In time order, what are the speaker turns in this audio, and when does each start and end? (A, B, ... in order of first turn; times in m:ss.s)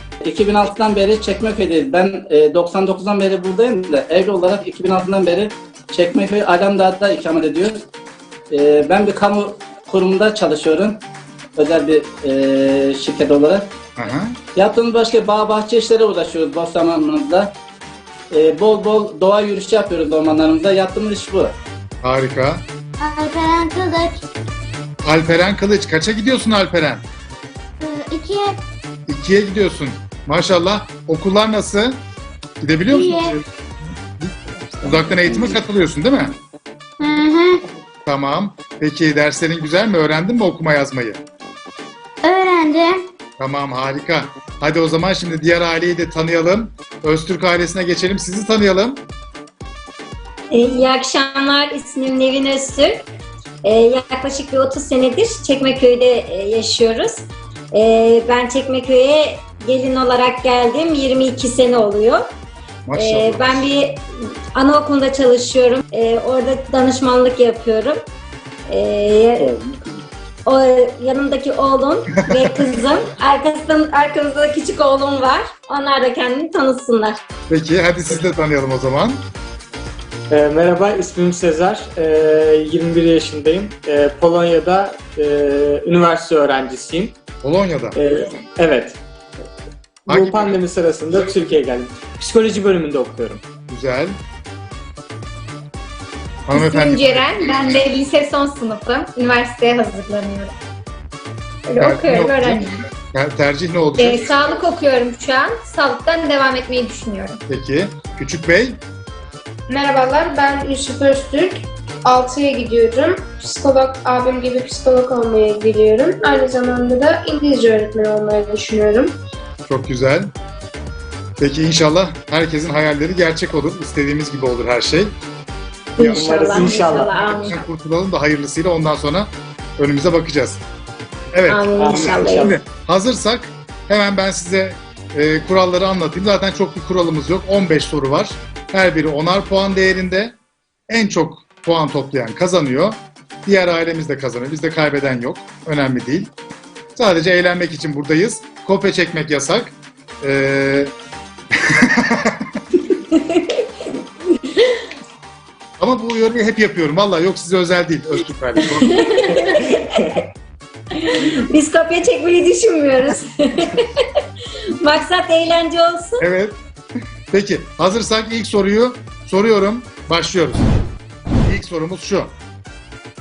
0:00.2-0:07.8 A
0:08.5-0:11.0 A
0:11.6-0:13.7 A
0:14.0-0:14.4 B
0:14.6-0:17.5 A
0:18.3-0:21.6 A
0:22.0-0:22.6 B
0:23.0-0:24.2 C
0:25.0-0:27.0 B
0:27.8-0:28.6 C
0:29.1-0:32.0 B
0:32.6-0:33.4 B
0:32.9-0:33.4 C
0:34.2-0:36.4 B
0:35.2-0:35.6 C
0:37.0-0:37.6 C
0:38.1-0:41.2 B
0:42.2-0:43.0 C
0:43.4-0:49.0 B
0:50.5-0:53.0 D
0:53.6-1:02.3 D
1:02.9-1:03.7 B
1:02.9-1:08.0 D
1:08.7-1:09.5 D
1:10.4-1:17.2 D
1:12.2-1:12.6 B
1:17.5-1:19.3 B
1:20.3-1:27.2 E
1:27.4-1:28.0 B
1:27.9-1:29.0 E
1:30.0-1:33.4 E
1:30.1-1:30.6 B
1:33.7-1:34.2 B
1:36.4-1:37.3 B
1:36.5-1:40.5 F
1:41.7-1:42.7 F
1:41.8-1:44.5 B
1:44.0-1:47.4 F
1:47.5-1:48.8 B
1:49.7-1:59.2 G
1:59.6-2:00.3 B
2:01.4-2:05.1 B
2:06.0-2:07.5 D
2:06.0-2:07.6 F
2:06.0-2:07.2 E
2:07.4-2:10.6 B
2:11.3-2:20.3 B
2:11.5-2:12.6 F
2:11.8-2:12.6 E
2:20.9-2:26.3 B
2:27.0-2:30.9 B
2:31.6-2:32.6 B
2:33.0-2:33.6 D
2:35.8-2:39.4 B
2:38.8-2:40.2 D
2:41.0-2:44.0 D
2:44.8-2:46.2 D
2:46.2-2:46.6 B
2:47.3-2:50.7 B
2:51.4-2:52.3 B